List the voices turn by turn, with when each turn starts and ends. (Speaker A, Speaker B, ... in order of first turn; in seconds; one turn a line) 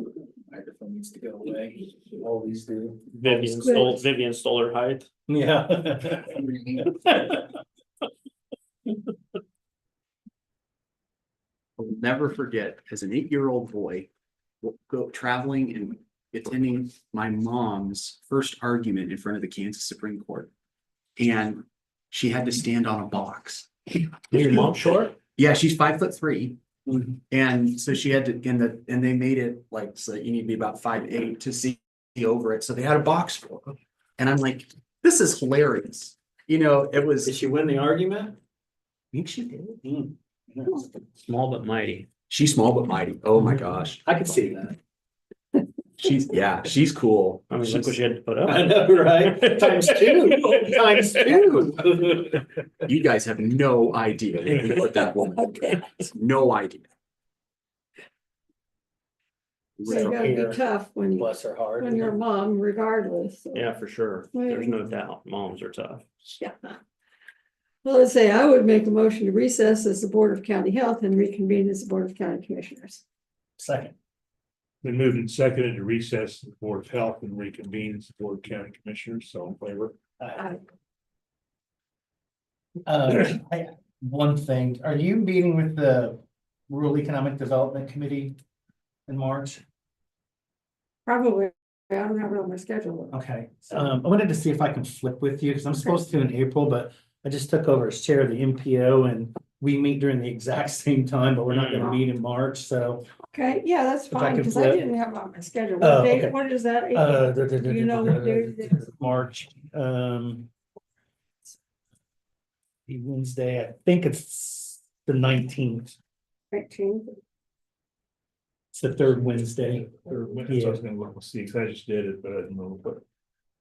Speaker A: 0.5-3.5
Speaker B: 3.1-5.1
Speaker C: 3.6-4.0
Speaker A: 5.3-7.5
Speaker D: 11.8-14.1
Speaker D: 14.6-20.5
Speaker D: 21.2-23.7
Speaker D: 24.3-24.7
Speaker B: 24.3-25.1
Speaker D: 25.3-26.6
Speaker D: 27.3-37.3
Speaker A: 37.2-38.4
Speaker A: 39.1-40.9
Speaker B: 41.3-42.1
Speaker D: 42.3-44.0
Speaker A: 44.0-44.8
Speaker D: 46.0-47.5
Speaker B: 47.5-49.5
Speaker A: 48.4-52.4
Speaker D: 49.6-51.8
Speaker D: 52.3-56.9
Speaker C: 55.4-55.9
Speaker D: 59.8-60.4
Speaker A: 59.9-62.1
Speaker C: 59.9-63.7
Speaker B: 63.5-66.0
Speaker C: 64.3-64.8
Speaker C: 66.4-66.8
Speaker C: 67.8-73.0
Speaker A: 73.6-74.0
Speaker E: 74.8-80.0
Speaker A: 80.2-80.5
Speaker A: 82.9-88.4
Speaker A: 89.1-89.6
Speaker C: 91.1-93.1
Speaker A: 93.1-103.0
Speaker B: 101.5-102.0
Speaker C: 103.3-108.8
Speaker A: 104.1-104.8
Speaker A: 105.8-106.4
Speaker A: 106.9-110.5
Speaker A: 112.9-116.0
Speaker C: 116.5-117.2
Speaker A: 118.7-120.8
Speaker E: 119.9-123.0